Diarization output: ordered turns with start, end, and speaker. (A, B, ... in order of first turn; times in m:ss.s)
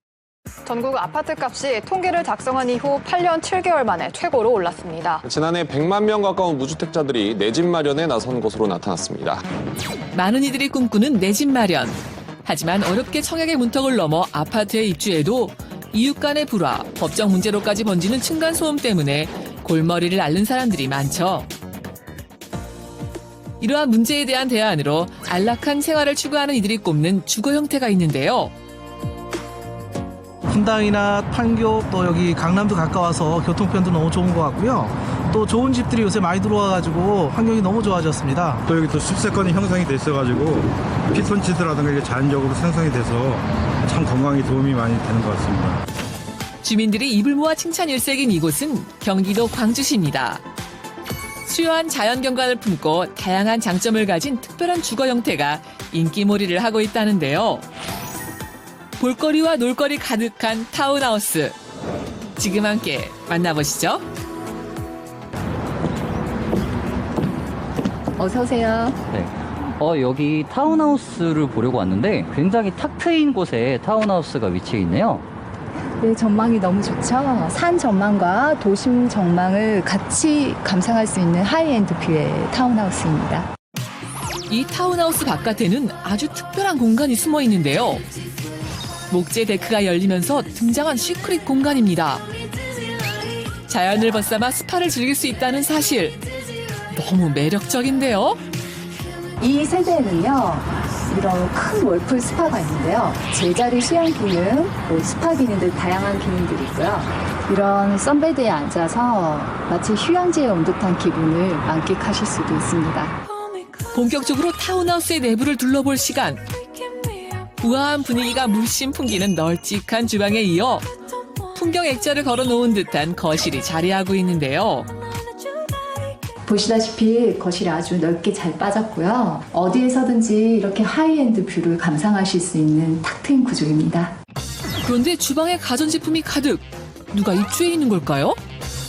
0:00.6-0:05.2 A
0:05.2-0:09.4 B
0:10.1-0:21.5 C
0:23.6-0:28.5 C
0:30.5-0:38.6 D
0:38.7-0:45.8 E
0:46.6-0:50.4 C
0:51.5-0:57.6 C
0:59.0-1:01.6 C
1:02.4-1:04.0 C
1:08.2-1:09.0 F
1:09.1-1:15.2 G
1:16.0-1:23.5 F
1:24.5-1:28.0 C
1:29.1-1:32.2 C
1:33.7-1:36.2 C
1:36.9-1:38.4 C
1:39.4-1:53.2 F
1:53.9-1:56.4 C
1:57.6-2:00.9 C
2:01.5-2:04.9 C
2:06.4-2:14.2 F
2:14.8-2:18.4 C